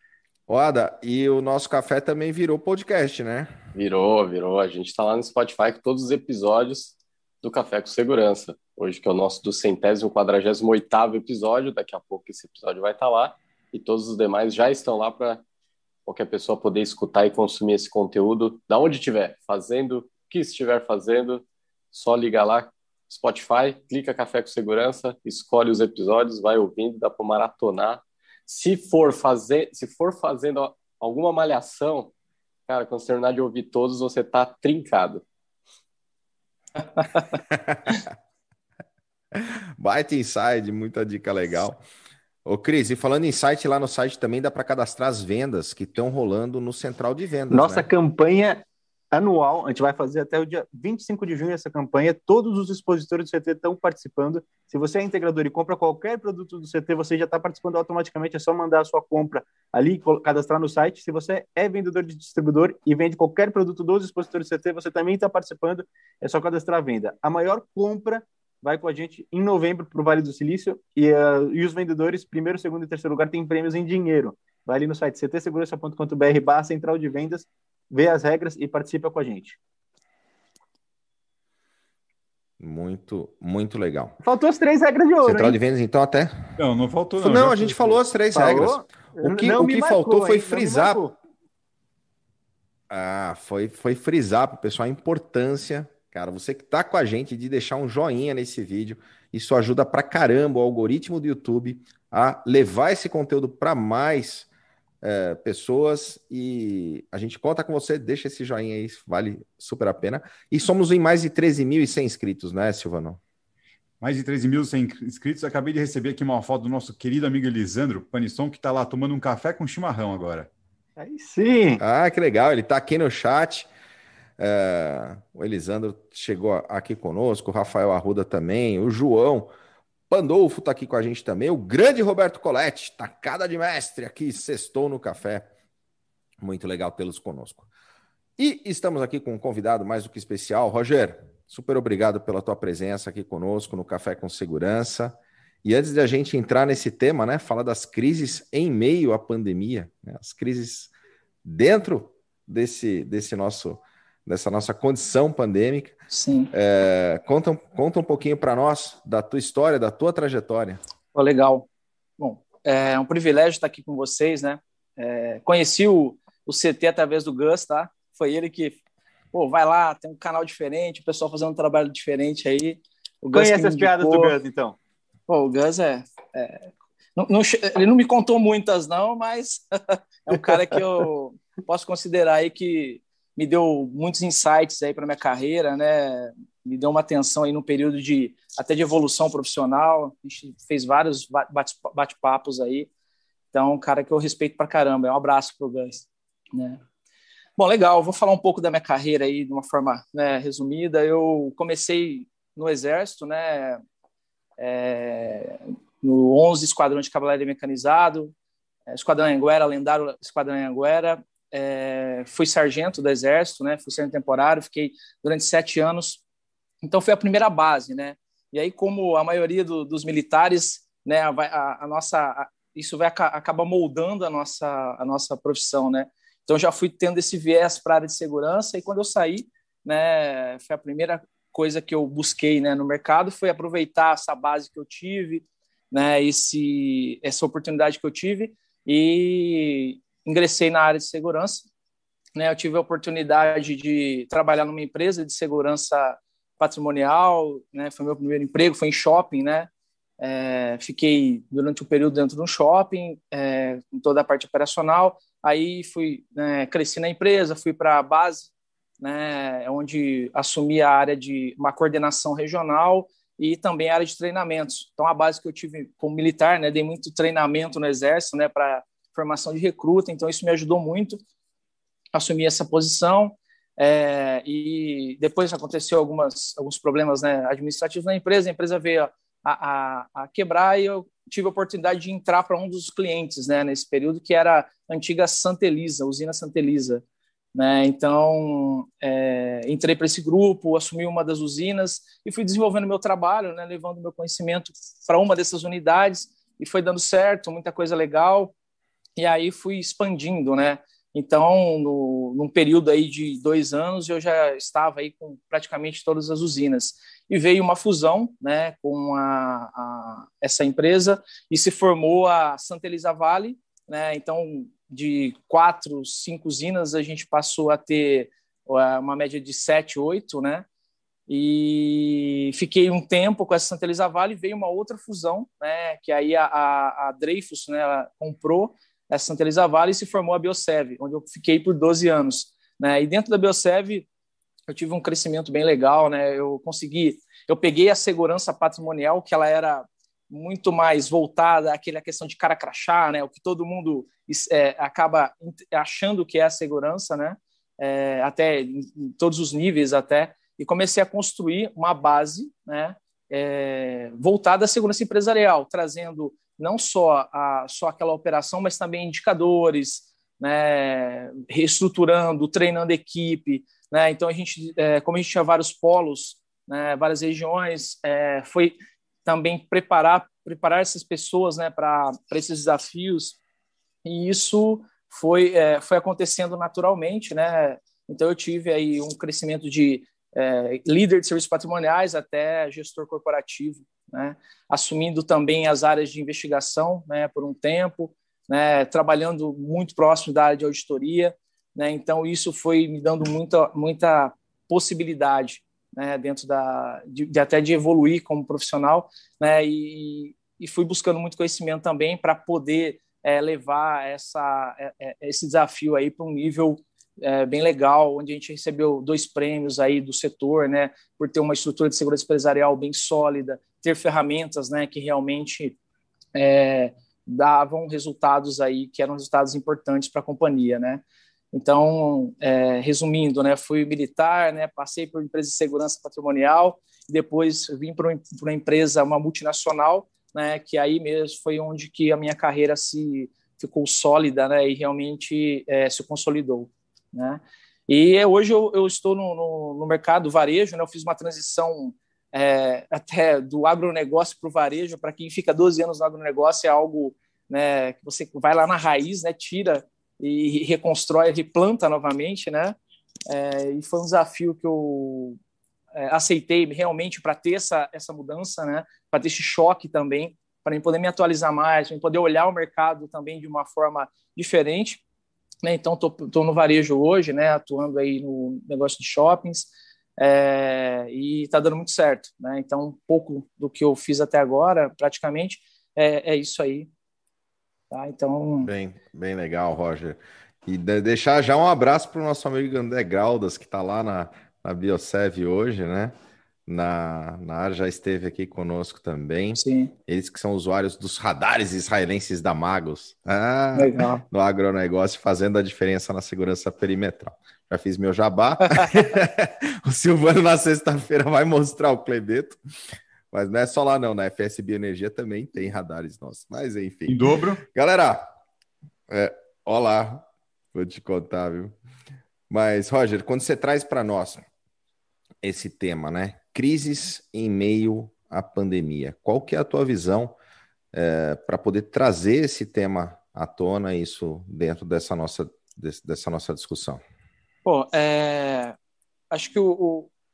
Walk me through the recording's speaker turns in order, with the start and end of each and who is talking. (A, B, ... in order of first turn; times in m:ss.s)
0:00.5-0:03.5 A
0:03.7-0:15.4 B
0:16.0-0:32.1 B
0:32.7-0:35.2 B
0:37.5-0:38.0 A
0:39.3-0:41.8 A
0:42.4-0:47.8 A
0:47.5-1:19.6 C
1:22.6-1:24.1 A
1:24.2-1:25.6 C
1:25.2-1:26.5 A
1:26.6-1:28.0 D
1:27.2-1:31.0 A
1:28.3-1:31.1 C
1:32.9-1:44.5 A
1:45.0-1:53.2 A
1:54.0-2:00.5 D
2:01.0-2:01.8 C
2:01.8-2:03.7 A
2:04.4-2:09.5 A
2:10.1-2:15.5 A
2:16.4-2:17.6 A
2:18.4-2:30.9 A
2:31.4-2:36.0 A
2:36.1-2:36.5 E
2:36.5-2:40.8 A
2:41.1-2:41.7 E
2:42.2-2:48.8 E
2:49.3-2:54.4 E
2:53.3-2:54.8 C
2:55.3-3:12.9 E
3:13.5-3:16.8 E
3:17.6-3:23.8 E
3:24.6-3:28.3 E
3:28.9-3:36.2 E
3:36.8-4:01.7 E
4:02.4-4:31.2 E
4:32.1-4:47.0 E
4:47.5-4:58.5 E
4:59.2-5:20.6 E
5:21.3-5:34.1 E
5:34.7-6:13.4 E
6:14.0-6:55.8 E
6:56.3-7:32.8 E
7:33.3-7:35.4 E
7:36.0-7:45.0 E
7:45.6-7:56.9 E
7:57.9-7:58.7 E
7:58.6-8:06.1 A
8:06.7-8:22.6 A
8:09.5-8:09.9 E
8:13.7-8:14.2 E
8:23.3-8:28.3 A
8:27.1-8:27.6 D
8:29.1-8:31.8 A
8:32.5-8:34.4 A
8:35.4-8:40.4 A
8:40.9-8:47.0 A
8:47.6-8:48.8 E
8:49.3-8:50.1 E